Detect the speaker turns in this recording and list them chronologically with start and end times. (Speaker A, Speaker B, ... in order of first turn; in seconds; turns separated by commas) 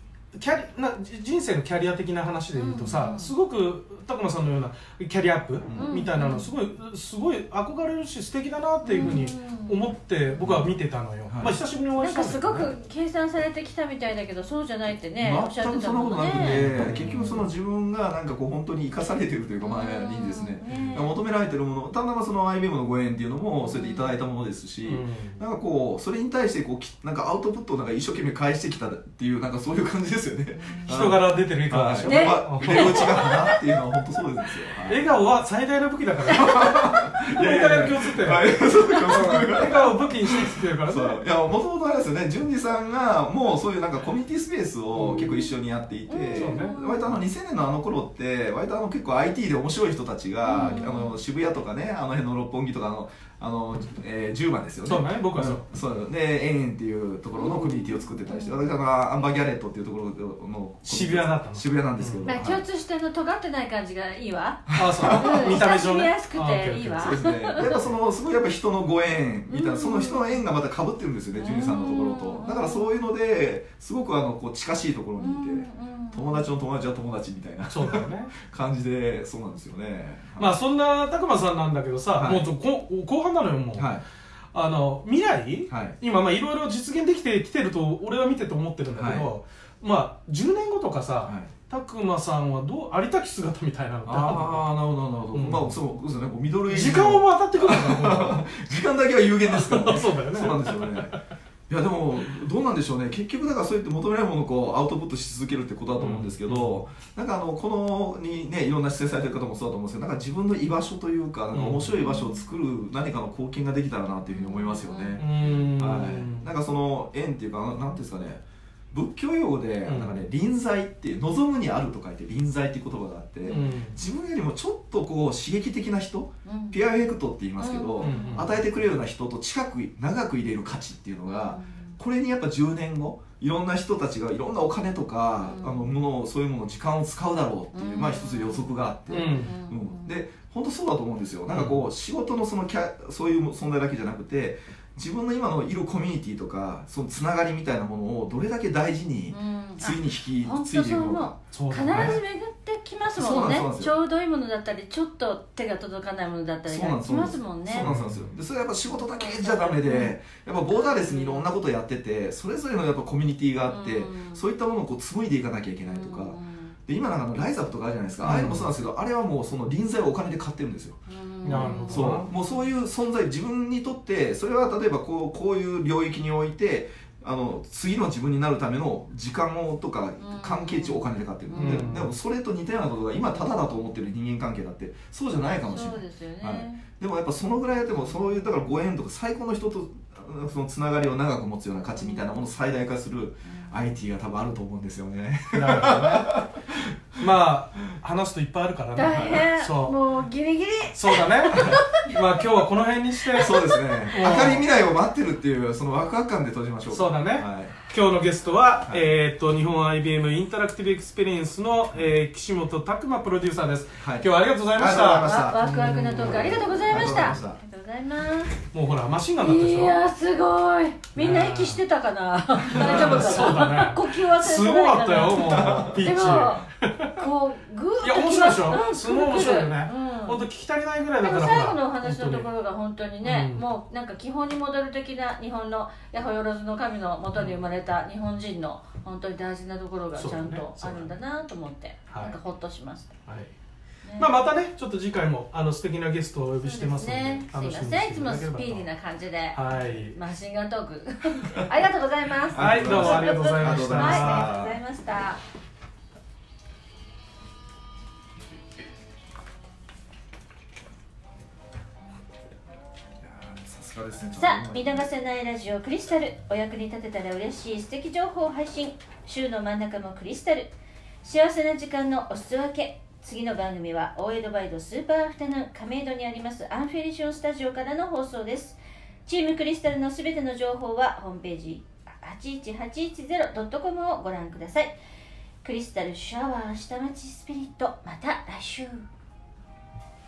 Speaker A: 0.3-12.7, Speaker B: 2.5-3.3, Speaker C: 5.7-5.9, Speaker B: 5.8-6.5, Speaker B: 8.8-9.9, Speaker C: 9.0-9.2, Speaker C: 10.4-10.7, Speaker C: 11.3-11.6, Speaker B: 12.0-17.4, Speaker C: 15.2-35.2, Speaker A: 16.4-17.3, Speaker B: 19.6-21.2, Speaker B: 23.6-24.1, Speaker A: 24.8-25.4, Speaker B: 30.5-31.0, Speaker A: 30.9-33.3, Speaker B: 32.0-33.6, Speaker A: 34.9-41.2, Speaker C: 36.3-62.6, Speaker A: 44.9-45.5, Speaker B: 46.1-47.1, Speaker A: 46.3-46.7, Speaker B: 50.4-51.2, Speaker A: 54.8-55.6, Speaker B: 57.3-58.9, Speaker A: 60.9-62.3, Speaker B: 62.2-67.8, Speaker C: 64.7-65.6, Speaker A: 64.7-67.8, Speaker C: 67.0-80.6, Speaker B: 69.5-70.4, Speaker B: 71.3-72.9, Speaker B: 75.2-76.5, Speaker A: 77.7-78.3, Speaker A: 80.4-83.9, Speaker C: 82.1-82.5, Speaker C: 83.7-84.0, Speaker A: 84.5-94.7, Speaker C: 85.7-86.0, Speaker C: 88.9-89.3, Speaker C: 91.2-91.5, Speaker C: 94.0-101.2, Speaker A: 95.3-95.8, Speaker A: 96.7-98.5, Speaker A: 99.4-101.2, Speaker C: 101.7-152.2, Speaker A: 106.0-106.8, Speaker A: 111.5-112.0, Speaker B: 112.0-112.4, Speaker B: 114.3-115.2, Speaker A: 115.1-116.5, Speaker A: 119.8-120.2, Speaker A: 123.5-124.0, Speaker B: 126.4-126.8, Speaker B: 127.6-128.5, Speaker A: 128.0-128.6, Speaker B: 131.2-132.0, Speaker B: 135.4-135.9, Speaker B: 137.7-140.2, Speaker A: 139.1-139.5, Speaker A: 141.5-141.8, Speaker B: 149.3-157.9, Speaker A: 151.5-152.2, Speaker C: 153.1-154.0, Speaker C: 156.7-196.8, Speaker A: 157.8-158.3, Speaker B: 158.8-160.2, Speaker B: 160.7-161.5, Speaker B: 163.6-164.4, Speaker B: 165.8-166.7, Speaker A: 168.2-168.7, Speaker B: 171.1-172.7, Speaker A: 171.4-172.3, Speaker B: 180.2-181.9, Speaker A: 181.6-182.1, Speaker B: 185.6-186.8, Speaker B: 187.9-188.3, Speaker B: 191.9-192.4, Speaker B: 193.4-193.8, Speaker A: 195.5-196.3, Speaker A: 197.2-200.0, Speaker B: 198.9-202.4, Speaker C: 199.0-199.5, Speaker A: 200.9-204.7, Speaker C: 201.5-201.8, Speaker C: 203.3-207.7, Speaker B: 203.3-204.2, Speaker A: 206.9-217.4, Speaker C: 208.7-209.2, Speaker C: 214.0-217.6, Speaker B: 215.2-218.5, Speaker A: 218.7-220.0, Speaker B: 219.4-230.4, Speaker A: 221.1-221.8, Speaker A: 222.7-227.1, Speaker C: 222.8-223.5, Speaker C: 225.3-226.1, Speaker A: 228.0-232.5, Speaker B: 231.2-243.1, Speaker A: 233.2-233.6, Speaker A: 240.1-241.2, Speaker A: 242.1-242.4, Speaker A: 243.3-243.5, Speaker B: 244.0-244.4, Speaker A: 244.2-248.9, Speaker B: 246.6-255.4, Speaker A: 249.5-250.2, Speaker C: 252.5-254.8, Speaker A: 252.6-254.5, Speaker C: 263.2-265.1, Speaker B: 264.3-285.0, Speaker B: 285.6-289.0